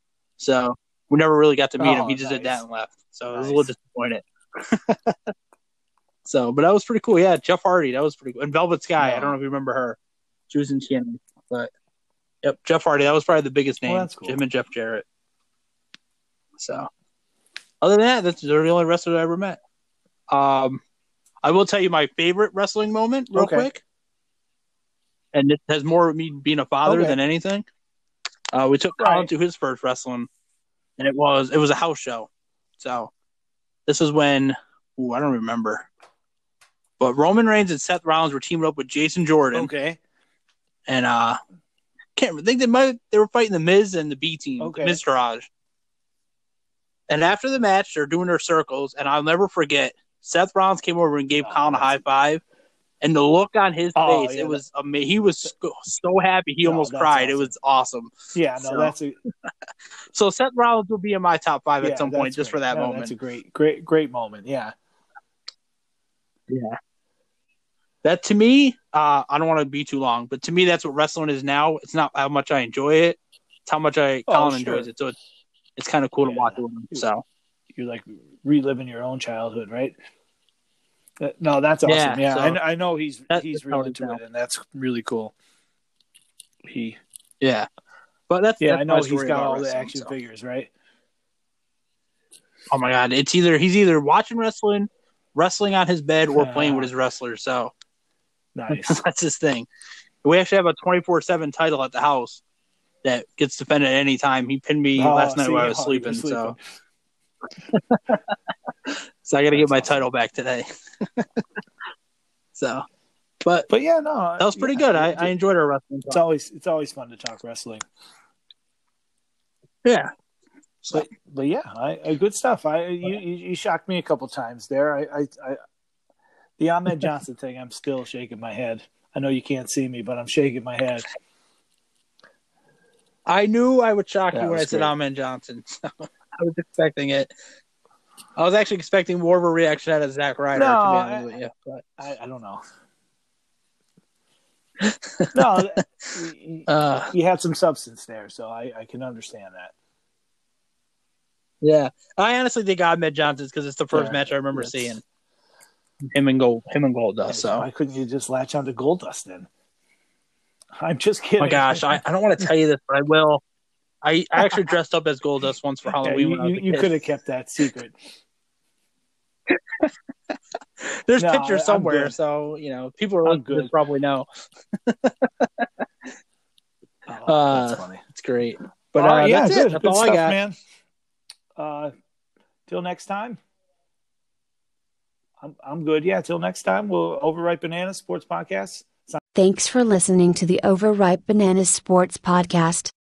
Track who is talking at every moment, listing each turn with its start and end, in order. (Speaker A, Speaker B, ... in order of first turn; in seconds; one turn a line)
Speaker A: 0.4-5.3
Speaker B: 1.8-2.6
Speaker B: 3.3-3.7
Speaker A: 6.2-10.0
Speaker B: 9.0-9.3
Speaker A: 10.5-11.7
Speaker A: 12.4-15.0
Speaker B: 13.8-14.4
Speaker A: 16.6-16.9
Speaker A: 17.8-19.6
Speaker A: 20.3-20.8
Speaker A: 21.4-23.8
Speaker B: 23.3-23.7
Speaker A: 25.3-27.6
Speaker B: 26.8-27.2
Speaker A: 28.5-30.3
Speaker B: 29.0-29.3
Speaker A: 31.0-33.1
Speaker A: 33.9-35.9
Speaker A: 37.0-39.7
Speaker B: 39.5-40.0
Speaker A: 40.9-41.4
Speaker A: 42.1-45.5
Speaker B: 44.6-45.0
Speaker A: 47.1-52.4
Speaker B: 51.3-52.0
Speaker A: 53.0-58.9
Speaker B: 54.0-54.6
Speaker B: 56.6-57.5
Speaker B: 58.3-59.2
Speaker A: 60.1-63.1
Speaker B: 61.8-64.7
Speaker A: 66.5-66.8
Speaker A: 68.0-75.1
Speaker B: 74.3-74.9
Speaker A: 75.8-77.2
Speaker B: 76.2-77.1
Speaker B: 77.7-79.9
Speaker B: 81.2-85.3
Speaker A: 81.8-82.6
Speaker A: 83.3-84.2
Speaker B: 86.6-87.0
Speaker A: 87.4-87.7
Speaker A: 88.3-90.1
Speaker B: 88.6-90.7
Speaker A: 92.7-97.7
Speaker B: 96.3-96.9
Speaker B: 98.5-99.0
Speaker A: 98.7-99.7
Speaker A: 100.2-102.4
Speaker A: 103.0-106.5
Speaker B: 105.0-106.6
Speaker A: 107.7-111.3
Speaker B: 109.5-110.0
Speaker A: 112.5-112.8
Speaker A: 113.4-113.7
Speaker B: 113.7-115.3
Speaker A: 114.4-116.2
Speaker B: 116.1-117.8
Speaker A: 119.8-120.1
Speaker B: 120.9-125.6
Speaker B: 126.6-131.1
Speaker A: 133.2-137.3
Speaker B: 134.3-134.9
Speaker A: 138.4-141.9
Speaker B: 140.5-141.3
Speaker B: 142.0-142.6
Speaker A: 144.8-145.8
Speaker B: 145.3-149.7
Speaker A: 146.7-147.1
Speaker A: 151.6-155.0
Speaker B: 153.9-155.0
Speaker A: 156.0-157.7
Speaker B: 157.3-159.5
Speaker B: 160.8-162.0
Speaker A: 161.4-163.4
Speaker A: 164.0-166.9
Speaker B: 166.0-168.0
Speaker A: 169.5-169.9
Speaker A: 170.8-175.8
Speaker B: 171.2-172.1
Speaker B: 173.2-173.7
Speaker B: 177.1-178.0
Speaker A: 177.3-180.3
Speaker B: 178.9-180.6
Speaker B: 181.6-181.9
Speaker B: 182.7-183.4
Speaker B: 185.4-189.2
Speaker C: 189.3-192.9